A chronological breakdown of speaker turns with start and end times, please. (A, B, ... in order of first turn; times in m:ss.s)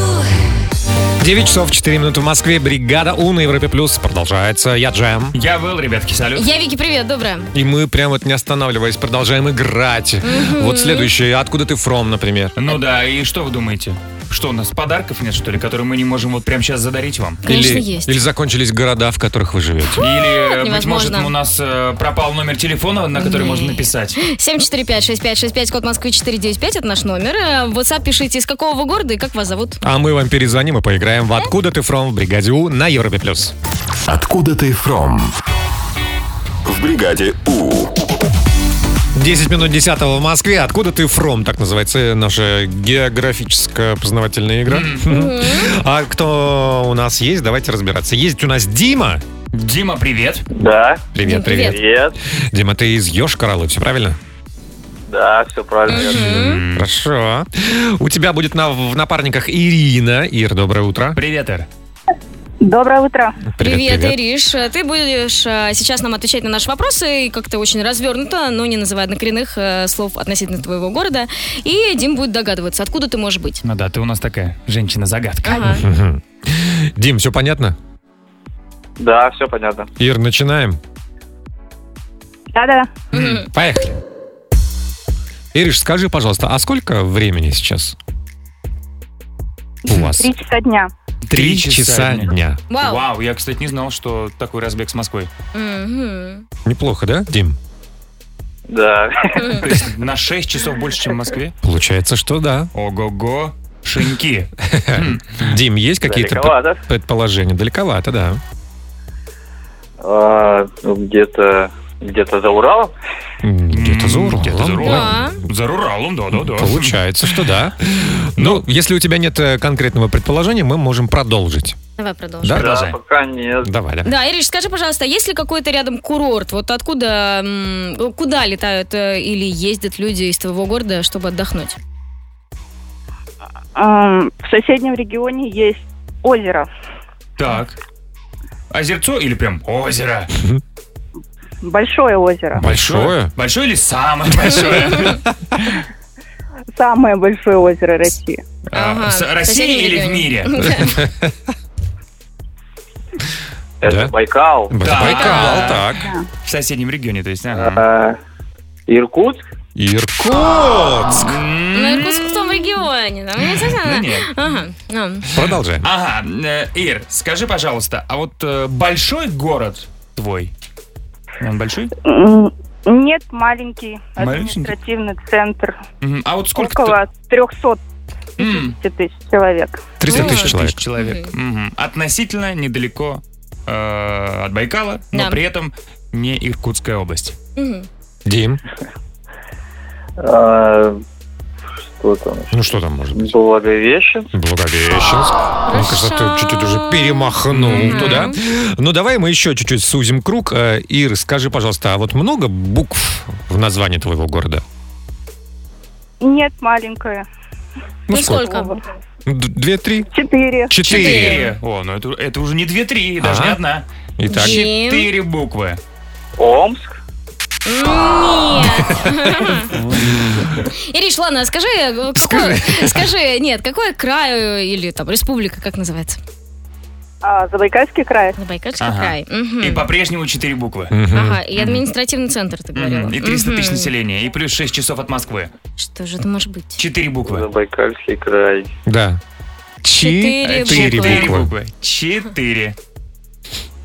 0:01.2-0:05.4 A
0:05.3-0:06.5 B
0:06.3-0:07.5 C
0:07.5-0:12.6 A
0:10.2-0:11.1 C
0:12.6-0:17.4 B
0:17.4-0:20.0 A
0:17.4-0:18.2 C
0:20.0-0:21.3 C
0:20.0-0:24.2 B
0:23.2-0:29.8 C
0:29.8-0:33.5 A
0:34.1-0:35.3 D
0:36.6-0:38.1 D
0:39.1-0:49.2 A
0:44.7-0:45.0 B
0:45.1-0:45.7 C
0:49.5-0:50.4 B
0:50.5-0:51.0 E
0:51.1-0:51.8 A
0:51.2-0:51.8 C
0:51.6-0:52.1 E
0:52.5-0:54.2 A
0:55.1-0:56.1 E
0:55.9-0:56.6 C
0:55.9-0:56.9 B
0:56.0-1:01.2 A
1:01.1-1:01.7 B
1:02.6-1:03.4 F
1:03.5-1:04.2 A
1:03.6-1:13.6 C
1:13.6-1:15.8 B
1:15.4-1:15.8 C
1:15.6-1:17.8 A
1:19.0-1:19.9 E
1:20.0-1:20.8 A
1:22.5-1:22.9 F
1:23.1-1:23.4 C
1:23.1-1:23.4 B
1:23.5-1:24.0 A
1:25.5-1:28.0 A
1:29.9-1:30.3 A
1:30.0-1:30.9 F
1:31.2-1:35.3 B
1:31.3-1:32.6 A
1:32.7-1:33.0 C
1:35.5-1:36.4 C
1:36.6-1:37.6 A
1:38.7-1:39.5 E
1:39.4-1:39.7 C
1:39.6-1:41.5 B
1:41.6-1:42.7 A
1:42.7-1:45.5 B
1:44.7-1:48.4 A
1:46.0-1:46.8 E
1:50.0-1:52.9 E
1:53.4-1:55.3 A
1:53.7-1:57.4 B
1:54.8-1:55.4 C
1:56.3-2:01.8 A
1:58.4-1:58.6 B
2:02.0-2:02.6 C
2:02.5-2:03.0 B
2:02.5-2:03.7 E
2:03.6-2:04.1 A
2:04.0-2:11.8 C
2:13.8-2:16.7 F
2:17.4-2:17.8 B
2:18.7-2:20.3 B
2:21.6-2:22.6 F
2:22.6-2:25.7 B
2:22.6-2:23.3 A
2:26.7-2:28.4 F
2:28.7-2:31.0 B
2:28.7-2:31.0 C
2:30.7-2:31.3 A
2:33.8-2:34.7 E
2:33.8-2:34.1 A
2:34.7-2:36.0 A
2:34.8-2:37.8 B
2:35.0-2:35.6 C
2:36.0-2:36.3 F
2:37.5-2:38.2 E
2:38.9-2:39.4 E
2:39.8-2:41.4 A
2:41.2-2:42.6 B
2:41.7-2:45.2 C
2:43.6-2:44.3 B
2:45.3-2:45.9 A
2:45.4-2:50.5 B
2:51.4-2:51.9 B
2:52.0-2:55.8 F
2:54.2-2:54.7 B
2:56.0-2:57.0 B
2:56.5-2:57.8 F
2:58.4-2:58.8 B
2:58.4-2:59.9 F
3:00.0-3:00.8 A
3:00.1-3:01.3 C
3:00.1-3:07.4 B
3:05.1-3:05.4 C
3:07.6-3:07.9 C
3:08.2-3:08.6 A
3:10.2-3:11.0 E
3:12.0-3:12.5 E
3:12.5-3:13.3 A
3:13.1-3:14.3 E
3:14.3-3:24.6 A
3:15.7-3:18.4 C
3:17.5-3:18.3 B
3:26.2-3:27.2 F
3:28.1-3:28.5 A
3:28.1-3:28.8 C
3:28.2-3:28.8 F
3:29.2-3:30.1 A
3:30.1-3:30.7 F
3:30.7-3:31.4 A
3:30.9-3:31.5 C
3:30.9-3:35.8 B
3:33.2-3:33.6 A
3:34.2-3:34.6 A
3:34.3-3:35.1 C
3:36.4-3:36.9 E
3:37.6-3:39.7 C
3:38.6-3:39.1 A
3:39.7-3:40.4 B
3:40.9-3:46.2 C
3:42.1-3:43.1 A
3:47.2-3:48.4 F
3:48.4-3:49.8 C
3:48.8-3:51.0 B
3:50.9-3:51.4 A
3:51.1-3:53.9 C
3:51.6-3:51.8 B
3:52.7-3:55.5 B
3:55.8-3:56.8 C
3:56.8-3:57.4 B
3:57.2-3:58.7 E
3:58.8-3:59.2 A
3:59.8-4:01.5 A
4:00.0-4:01.3 C
4:00.4-4:02.8 B